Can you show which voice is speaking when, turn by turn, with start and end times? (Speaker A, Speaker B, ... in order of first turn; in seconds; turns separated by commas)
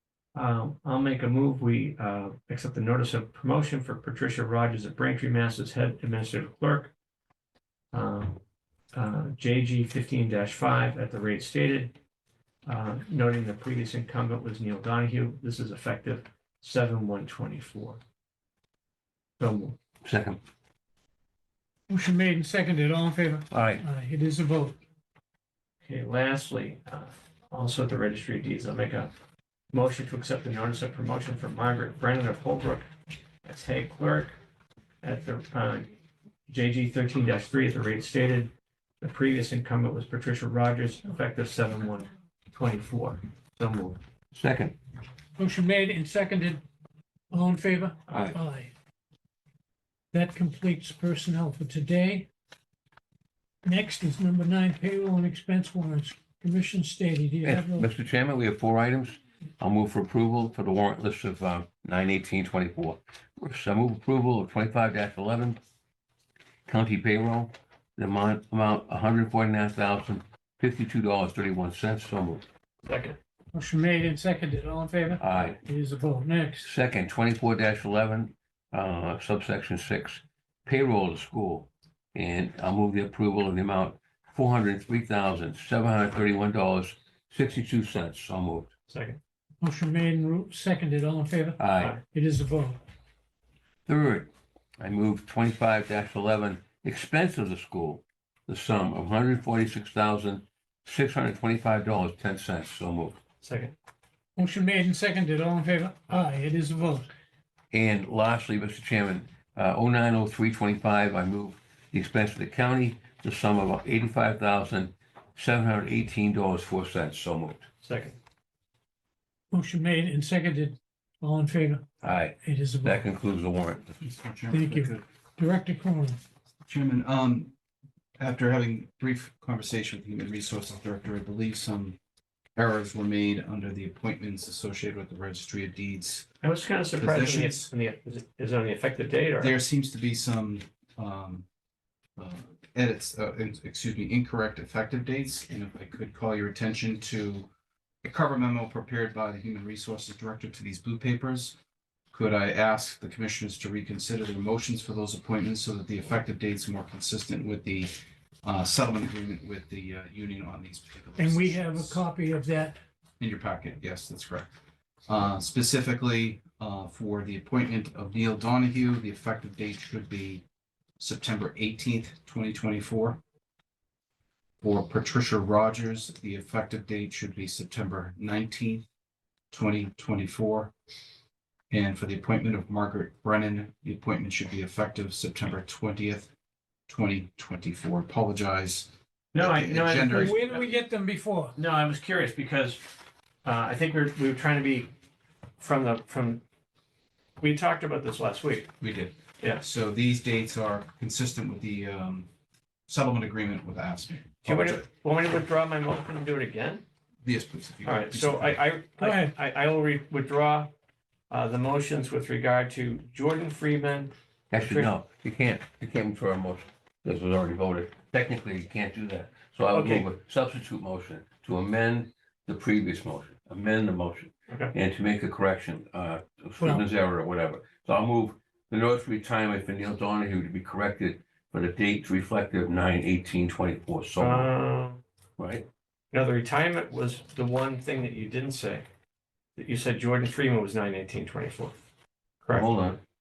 Speaker A: 0.3-6.9, Speaker A: 7.9-8.4, Speaker A: 8.9-12.0, Speaker A: 12.7-18.0, Speaker A: 19.4-19.8, Speaker B: 20.1-20.4, Speaker C: 21.9-24.8, Speaker B: 23.5-23.8, Speaker A: 25.8-29.1, Speaker A: 29.7-32.9, Speaker A: 33.4-34.4, Speaker A: 35.0-35.9, Speaker A: 36.5-44.0, Speaker B: 44.3-44.8, Speaker C: 45.4-46.6, Speaker C: 47.3-48.7, Speaker A: 48.1-48.4, Speaker C: 50.1-52.3, Speaker C: 53.6-57.9, Speaker B: 57.4-65.6, Speaker B: 66.7-72.4, Speaker A: 72.9-73.2, Speaker C: 73.5-76.7, Speaker B: 75.2-75.6, Speaker B: 76.6-88.7, Speaker A: 88.9-89.2, Speaker C: 89.6-92.8, Speaker B: 91.6-91.9, Speaker B: 93.9-103.2, Speaker A: 103.4-103.7, Speaker C: 104.4-107.1, Speaker B: 107.7-117.7, Speaker A: 117.8-118.2, Speaker C: 119.5-123.1, Speaker B: 122.0-124.0, Speaker D: 124.0-125.0, Speaker C: 124.5-126.2, Speaker D: 126.7-127.5, Speaker D: 128.2-132.0, Speaker D: 132.6-136.3, Speaker A: 136.4-139.6, Speaker D: 137.0-137.7, Speaker D: 139.4-141.5, Speaker D: 142.2-147.5, Speaker D: 148.0-151.6, Speaker D: 152.1-162.0, Speaker C: 161.2-162.8, Speaker D: 163.2-164.5, Speaker D: 165.1-170.4, Speaker D: 171.0-173.2, Speaker D: 174.6-178.8, Speaker D: 179.5-180.7, Speaker D: 181.7-186.3, Speaker D: 186.9-190.4, Speaker A: 189.3-190.7, Speaker C: 190.1-191.6, Speaker A: 191.6-192.9, Speaker A: 193.4-194.9, Speaker A: 195.6-196.4, Speaker A: 197.4-198.7, Speaker D: 198.8-202.3, Speaker A: 199.4-199.7, Speaker D: 202.9-204.8, Speaker A: 204.4-206.8, Speaker D: 207.2-208.6, Speaker A: 207.8-210.7, Speaker C: 209.0-209.3, Speaker A: 211.3-214.9, Speaker B: 214.5-234.5, Speaker A: 219.7-220.1, Speaker C: 226.6-226.8, Speaker A: 234.2-235.0, Speaker B: 235.4-235.7, Speaker A: 236.1-238.9, Speaker A: 239.6-241.8, Speaker B: 242.5-243.0